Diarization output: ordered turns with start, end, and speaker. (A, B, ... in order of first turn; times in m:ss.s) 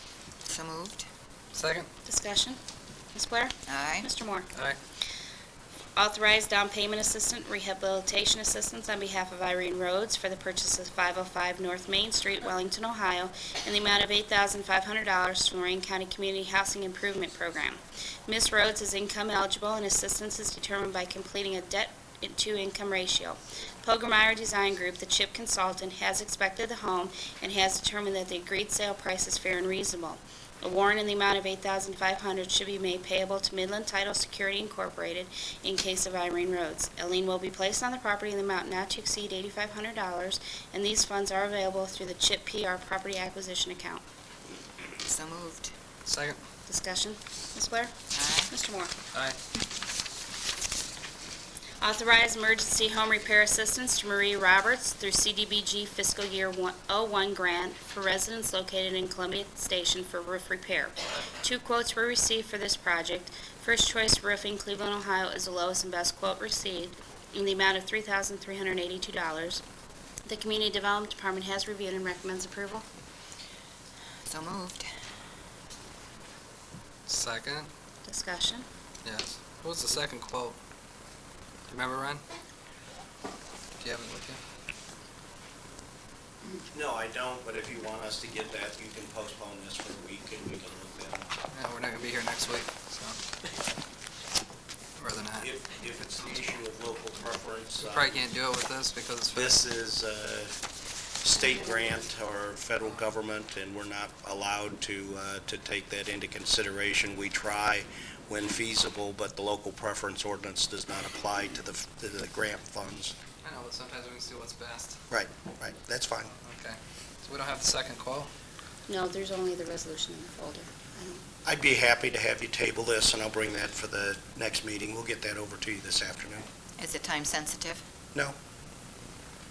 0:00.5-0:01.0 A
0:01.5-0:01.9 B
0:02.0-0:02.6 C
0:03.1-0:04.5 C
0:03.7-0:04.1 A
0:06.0-0:44.0 C
0:45.0-0:45.7 A
0:46.0-0:46.4 B
0:46.7-0:48.9 C
0:48.1-0:48.5 A
0:51.8-1:09.6 C
1:10.2-1:12.8 C
1:14.3-1:14.9 A
1:17.1-1:17.7 B
1:18.0-1:18.7 C
1:19.0-1:20.6 B
1:21.7-1:22.2 B
1:23.8-1:24.4 B
1:26.7-1:31.3 D
1:31.5-1:33.2 B
1:35.0-1:35.5 B
1:35.4-1:38.2 D
1:37.8-1:39.5 B
1:39.3-1:40.5 D
1:41.2-1:53.2 D
1:53.4-1:55.0 B
1:55.1-1:56.3 D
1:56.4-1:58.3 B
1:58.9-2:01.2 C
2:01.4-2:06.4 D
2:06.8-2:07.8 A